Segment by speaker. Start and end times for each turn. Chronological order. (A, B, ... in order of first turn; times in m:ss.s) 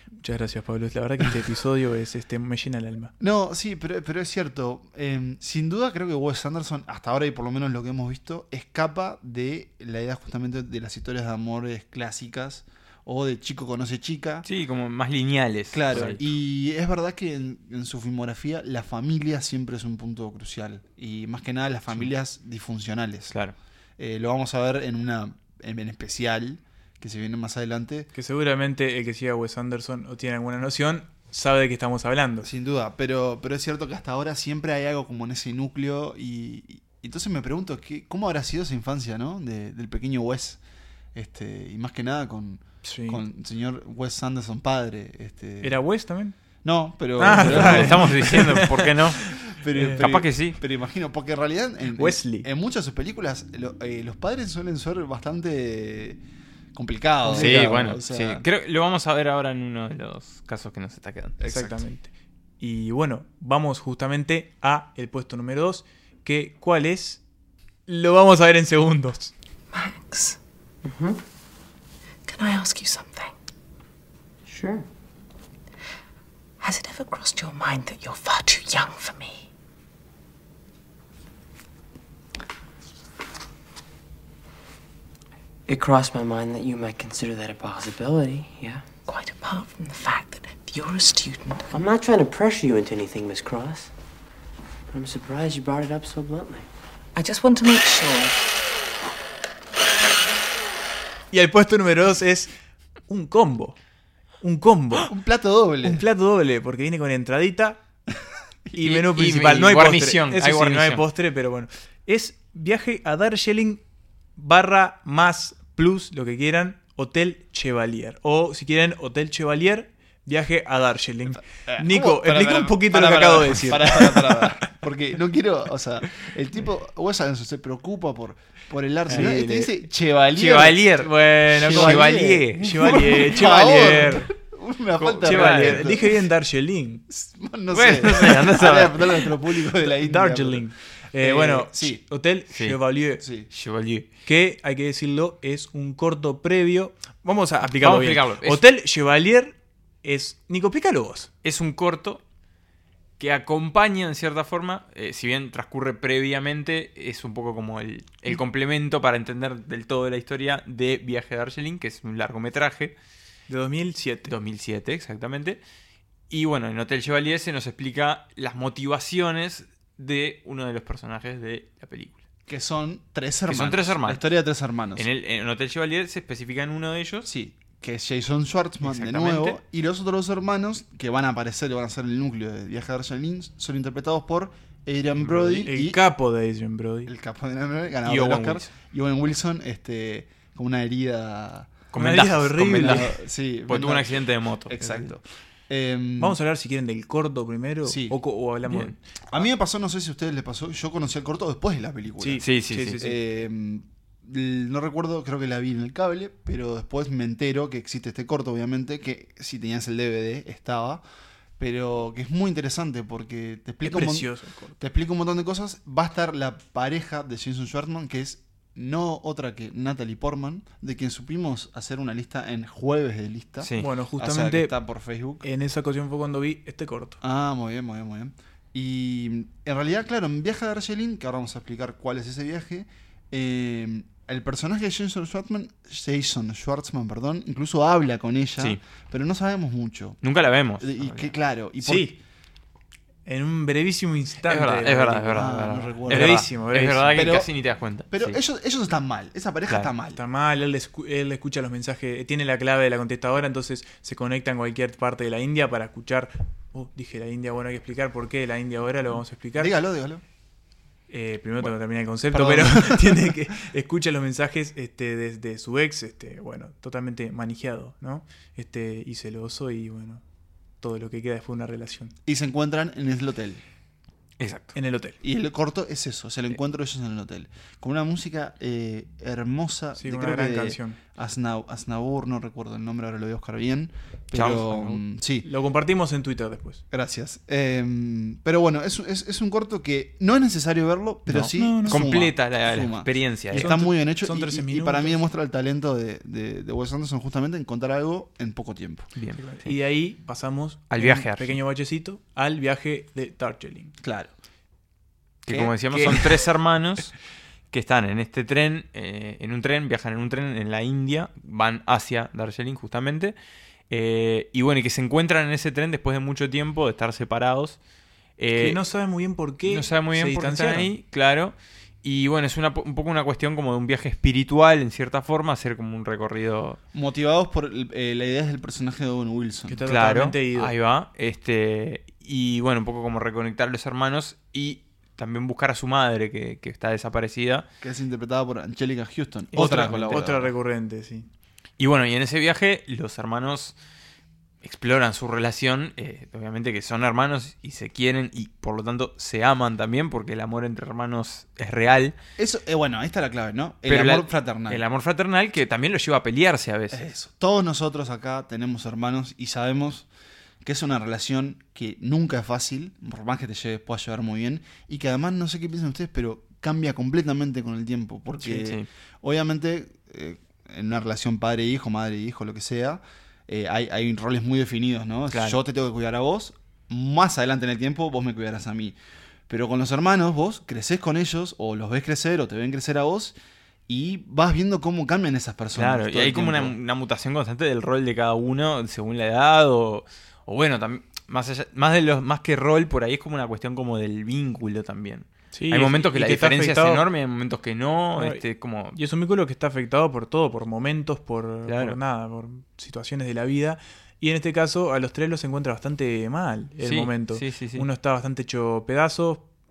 0:00.2-0:03.1 A
0:03.2-0:14.5 B
0:14.4-0:16.2 C
0:15.7-0:23.4 B
0:24.0-0:28.1 B
0:28.1-0:32.5 A
0:32.4-0:40.6 B
0:41.1-0:45.8 B
0:42.8-0:43.2 A
0:45.6-0:46.4 A
0:46.6-0:48.8 B
0:47.2-0:50.0 A
0:47.3-0:49.2 C
0:49.5-0:56.2 B
0:50.0-0:50.6 C
0:52.0-0:52.5 A
0:56.8-0:58.4 B
0:57.2-0:57.8 A
0:57.4-1:01.4 C
1:01.4-1:01.8 B
1:01.4-1:07.2 A
1:07.9-1:09.3 A
1:09.7-1:10.4 D
1:10.8-1:11.2 E
1:12.3-1:13.4 D
1:14.5-1:14.9 E
1:16.6-1:19.5 D
1:25.7-1:29.0 E
1:29.0-1:31.7 D
1:31.7-1:33.9 E
1:34.9-1:36.7 E
1:37.2-1:38.4 D
1:41.3-1:42.5 A
1:43.1-1:43.8 A
1:44.4-1:45.1 A
1:45.1-1:46.0 B
1:45.8-1:47.8 A
1:48.8-1:53.8 A
1:48.8-1:51.0 C
1:54.4-2:04.5 A
2:01.7-2:11.0 B
2:09.1-2:09.4 C
2:09.1-2:09.7 A
2:10.4-2:13.0 C
2:11.0-2:14.3 A
2:11.5-2:16.1 B
2:15.0-2:15.9 C
2:15.2-2:17.0 A
2:17.1-2:22.0 B
2:17.7-2:19.4 C
2:19.9-2:23.2 A
2:23.2-2:23.5 B
2:23.5-2:24.1 C
2:24.3-2:31.3 A
2:27.7-2:28.6 C
2:31.4-2:32.2 C
2:33.2-2:43.0 C
2:43.5-2:44.3 A
2:44.3-2:45.6 C
2:46.3-2:52.2 C
2:52.5-2:55.1 B
2:53.5-2:54.2 C
2:55.0-2:57.3 C
2:57.2-3:06.0 B
2:58.8-2:59.6 C
3:05.5-3:07.1 A
3:07.1-3:11.8 B
3:08.0-3:08.7 C
3:11.9-3:13.2 C
3:12.0-3:13.1 A
3:12.7-3:16.4 B
3:13.7-3:15.1 C
3:16.2-3:19.0 A
3:17.8-3:18.2 B
3:18.7-3:19.0 C
3:19.3-3:31.0 B
3:22.2-3:23.2 A
3:22.4-3:23.0 C
3:31.6-3:45.5 B
3:33.8-3:34.8 A
3:43.6-3:43.9 C
3:43.8-3:44.8 A
3:45.4-3:47.2 A
3:47.2-4:00.2 B
4:00.2-4:01.3 C
4:00.8-4:02.2 B
4:01.8-4:02.2 A
4:03.3-4:07.3 A
4:04.5-4:08.4 C
4:05.3-4:06.5 B
4:07.1-4:07.5 B
4:08.1-4:10.2 B
4:10.2-4:19.7 A
4:19.6-4:20.2 B
4:21.1-4:30.2 A
4:22.3-4:23.4 B
4:30.8-4:32.1 A
4:32.3-4:33.6 B
4:34.4-4:34.8 C
4:34.8-4:35.2 A
4:35.2-4:45.5 B
4:40.0-4:41.0 A
4:44.3-4:45.0 C
4:45.4-4:46.8 A
4:46.9-4:59.1 B
4:51.3-4:53.7 C
4:51.5-4:52.0 A
4:53.5-4:55.2 A
4:59.2-4:59.7 C
4:59.4-5:03.9 A
5:00.9-5:01.6 C
5:04.0-5:04.3 B
5:05.4-5:07.1 C
5:05.5-5:06.3 B
5:07.7-5:13.4 C
5:13.9-5:17.8 C
5:18.4-5:18.8 C
5:18.5-5:20.9 A
5:19.6-5:26.8 C
5:26.9-5:29.8 B
5:29.7-5:30.7 A
5:29.9-5:37.7 C
5:37.8-5:40.5 B
5:39.5-5:40.3 C
5:39.5-5:41.3 A
5:41.8-5:43.8 C
5:44.6-5:52.2 C
5:52.4-5:54.8 B
5:53.9-5:57.1 C
5:56.9-6:00.1 B
6:00.6-6:19.0 B
6:08.4-6:08.9 C
6:15.3-6:15.6 C
6:19.5-6:23.4 B
6:23.9-6:26.8 B
6:25.8-6:39.0 C
6:35.5-6:37.0 A
6:38.2-6:38.4 A
6:38.9-6:49.5 A
6:41.7-6:42.0 C
6:46.8-6:47.9 C